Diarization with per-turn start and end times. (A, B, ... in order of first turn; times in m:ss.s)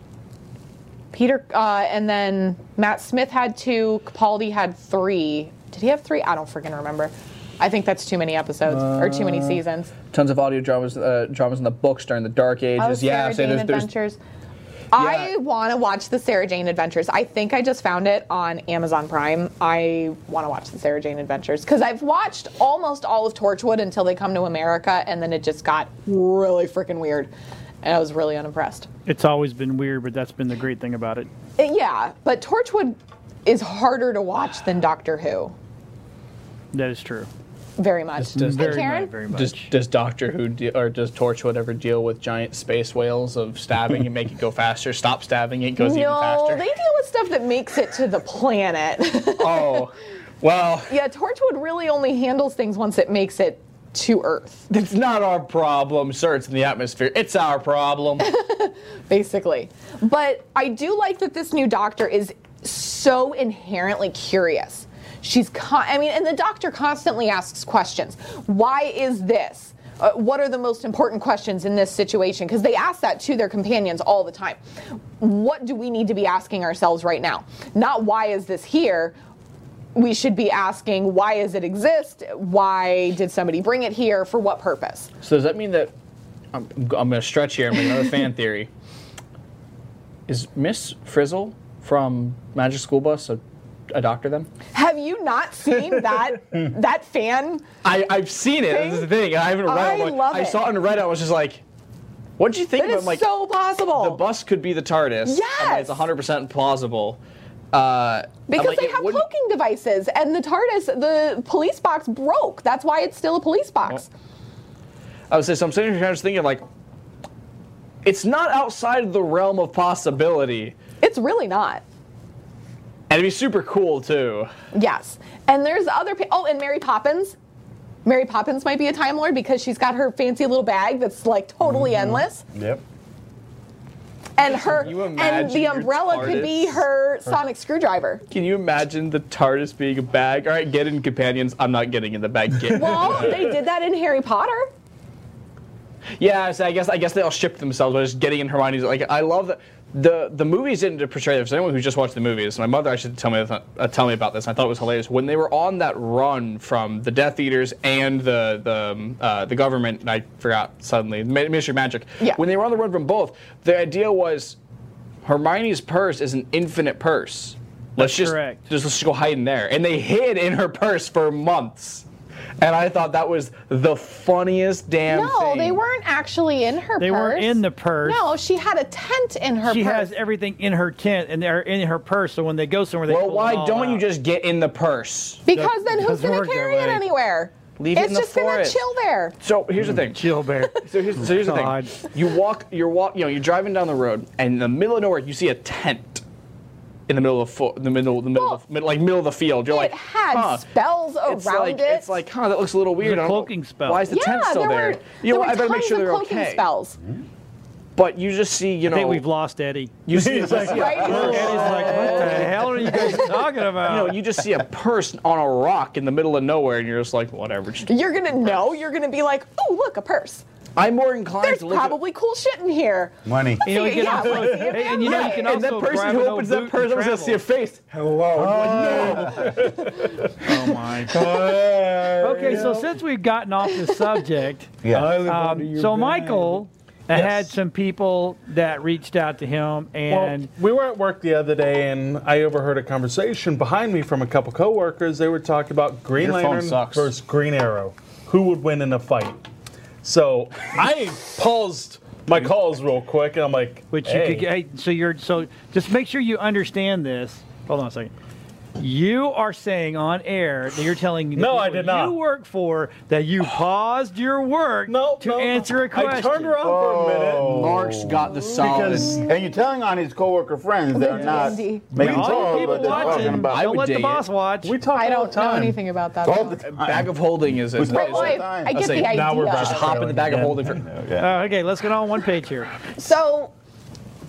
0:01.1-0:09.9 A
0:08.7-0:13.9 B
0:12.8-0:14.2 A
0:14.9-0:27.3 A
0:14.9-0:15.3 B
0:27.8-0:28.9 A
0:29.0-0:31.3 C
0:31.6-0:35.5 A
0:36.7-0:37.3 C
0:37.8-0:39.1 A
0:38.2-0:46.6 B
0:38.3-0:39.7 C
0:45.8-0:49.8 A
0:49.4-0:50.9 B
0:50.9-0:54.7 A
0:54.7-0:58.3 B
0:58.2-1:14.6 A
1:15.2-1:19.1 A
1:19.9-1:25.1 A
1:25.2-1:25.9 B
1:26.5-1:28.7 B
1:30.3-1:34.5 B
1:34.7-1:37.6 A
1:37.8-1:41.6 B
1:38.7-1:39.1 A
1:39.6-1:40.6 A
1:42.4-1:43.2 B
1:42.8-1:44.2 A
1:44.0-1:47.2 B
1:45.2-1:46.1 A
1:47.7-1:49.2 B
1:48.5-1:54.1 A
1:55.3-1:56.6 B
1:58.0-2:00.8 B
2:01.0-2:01.8 A
2:03.1-2:04.5 B
2:04.7-2:07.4 A
2:08.0-2:12.4 A
2:11.6-2:12.8 D
2:14.4-2:18.2 A
2:14.4-2:16.8 B
2:18.3-2:23.5 B
2:22.7-2:24.7 A
2:22.8-2:23.4 E
2:26.2-2:44.6 B
2:45.2-2:52.0 B
2:48.0-2:48.6 C
2:52.6-2:55.8 B
2:55.1-3:00.1 A
2:57.0-2:58.2 C
2:59.6-3:04.0 C
3:03.1-3:05.4 B
3:05.4-3:09.3 A
3:05.5-3:07.0 C
3:07.8-3:08.8 B
3:09.4-3:10.3 B
3:10.0-3:12.1 C
3:10.8-3:16.2 B
3:17.1-3:20.7 B
3:18.3-3:18.6 A
3:19.7-3:22.2 A
3:21.2-3:26.6 B
3:23.0-3:24.1 C
3:24.1-3:27.0 A
3:28.0-3:29.2 B
3:28.9-3:30.0 C
3:30.0-3:33.2 B
3:30.1-3:33.1 E
3:30.7-3:32.1 A
3:31.1-3:34.2 C
3:33.8-3:37.9 B
3:37.9-3:40.4 A
3:40.8-3:42.0 B
3:41.4-3:45.5 A
3:43.2-3:43.6 D
3:43.6-3:47.4 C
3:44.4-3:44.7 E
3:45.0-3:49.5 B
3:48.3-3:49.7 D
3:48.3-3:50.3 E
3:50.4-3:51.1 C
3:51.1-3:52.9 E
3:52.2-4:00.5 C
3:54.8-3:55.2 D
3:54.9-3:56.3 E
3:54.9-3:56.6 B
3:57.1-3:57.5 E
4:00.1-4:09.4 E
4:06.2-4:07.1 B
4:10.0-4:14.5 E
4:13.9-4:18.1 C
4:18.8-4:26.7 C
4:21.3-4:22.2 E
4:24.9-4:27.6 E
4:26.6-4:33.8 D
4:27.4-4:29.2 B
4:28.6-4:29.3 E
4:30.9-4:33.3 A
4:31.9-4:32.6 E
4:31.9-4:34.8 C
4:33.4-4:34.2 B
4:34.6-4:35.8 E
4:34.9-4:36.6 A
4:36.2-4:38.8 D
4:36.7-4:40.8 B
4:37.8-4:40.0 A
4:38.9-4:40.8 E
4:40.8-4:41.3 D
4:41.2-4:42.7 C
4:43.0-4:43.5 A